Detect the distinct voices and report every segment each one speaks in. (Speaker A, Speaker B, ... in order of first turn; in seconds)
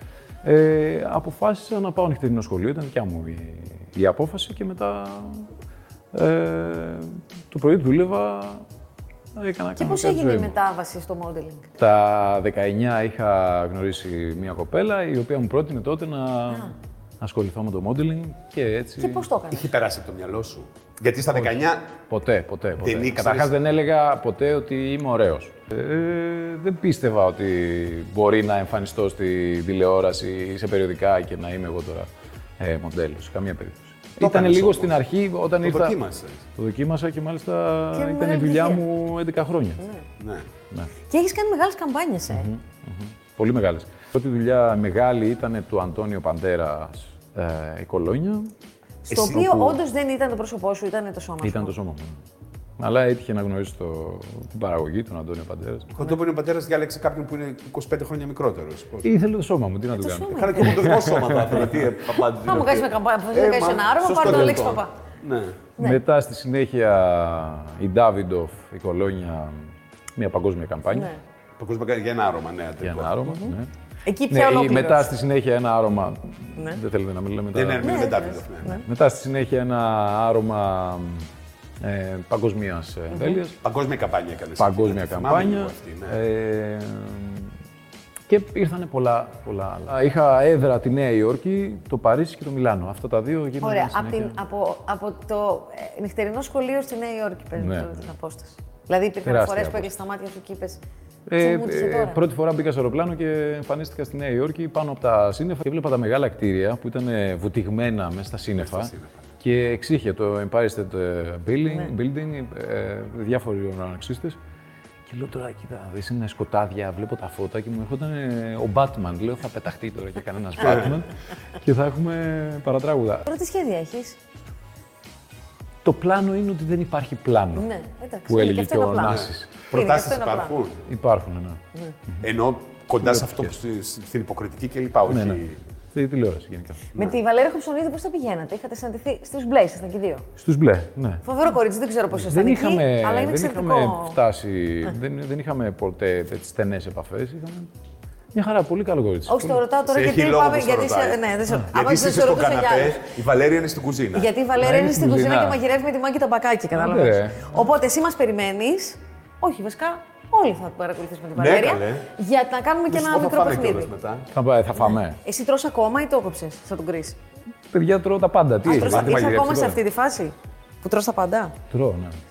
Speaker A: 0.4-5.5, 6.1-8.6, 9.3-10.5, 11.8-19.2, 22.1-32.1, 32.6-36.0, 36.5-39.8, 42.3-48.5, 51.4-52.2, 52.8-55.9, 59.0-61.7, 65.8-71.1, 72.8-73.7, 74.3-81.3, 81.8-83.6, 84.6-87.5, 88.3-94.3, 97.5-98.0, 99.2-99.9, 101.3-114.4, 115.1-123.2, 125.8-127.7, 128.3-129.7, 130.8-131.6, 133.0-133.6, 135.1-136.9, 140.4-141.2, 142.2-147.7, 148.3-149.6, 154.6-155.6, 156.8-157.5, 164.3-165.2, 167.7-169.8, 171.7-172.2
Speaker B: 9.8-11.7, 16.5-16.7, 19.0-19.7, 37.9-38.8, 41.1-42.5, 49.0-51.7, 59.9-60.6, 62.4-64.9, 70.9-71.2, 73.3-73.5, 74.0-75.1, 77.8-78.8, 83.1-83.4, 93.6-100.8, 101.4-102.2, 123.2-124.2, 127.5-130.5, 136.9-140.3, 141.2-144.2, 149.2-153.1, 154.1-163.9, 165.1-167.2, 168.6-171.6
Speaker C: 19.5-21.9, 22.8-23.5, 34.2-35.0, 35.6-36.5, 40.2-40.5, 49.1-49.8, 55.9-59.1, 60.3-65.6, 71.6-73.2, 77.5-78.8, 83.6-86.2, 108.7-109.1, 129.1-130.8, 132.2-135.6, 149.8-154.3, 161.3-162.1, 162.9-164.3, 168.7-169.5